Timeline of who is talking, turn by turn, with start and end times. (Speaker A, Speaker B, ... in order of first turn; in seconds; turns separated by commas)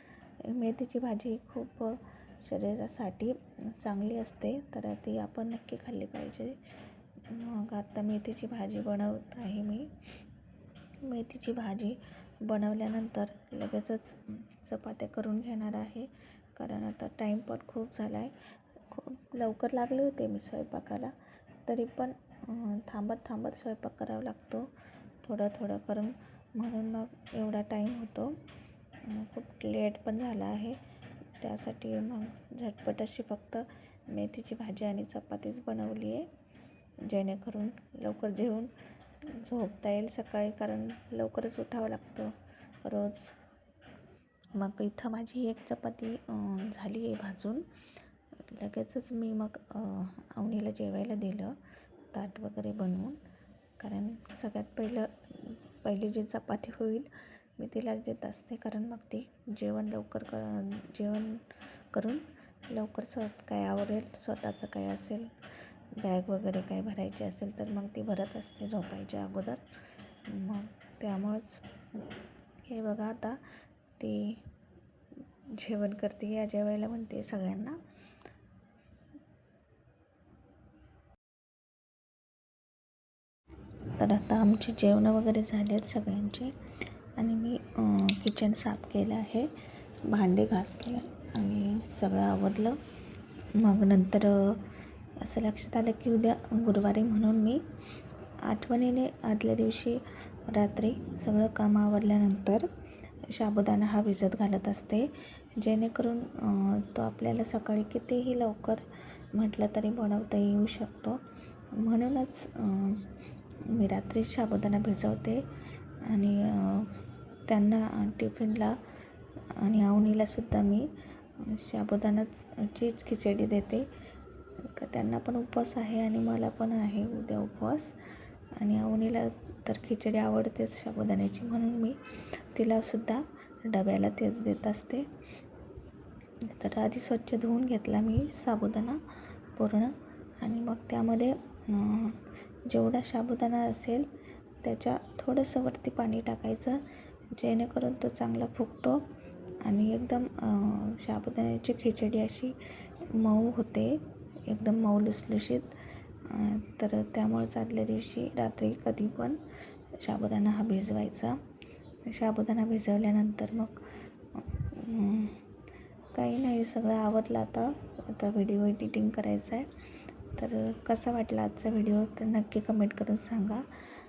Speaker A: 0.4-6.6, Speaker A: 7.2-10.1, Speaker A: 11.0-28.4, Speaker A: 29.0-30.8, Speaker A: 31.4-36.3, Speaker A: 37.0-43.4, Speaker A: 44.5-47.6, Speaker A: 48.4-51.6, Speaker A: 52.1-53.2, Speaker A: 53.8-65.3, Speaker A: 66.0-72.1, Speaker A: 72.6-74.4, Speaker A: 75.5-77.8, Speaker A: 83.9-86.5, Speaker A: 87.2-89.5, Speaker A: 90.0-92.8, Speaker A: 93.6-97.7, Speaker A: 98.4-102.7, Speaker A: 103.3-111.2, Speaker A: 111.7-115.4, Speaker A: 116.0-118.8, Speaker A: 119.5-123.9, Speaker A: 124.6-128.0, Speaker A: 128.6-135.1, Speaker A: 136.4-139.0, Speaker A: 139.6-144.1, Speaker A: 144.6-149.1, Speaker A: 149.6-159.4, Speaker A: 159.9-161.4, Speaker A: 162.1-165.4, Speaker A: 166.1-169.7, Speaker A: 170.3-173.7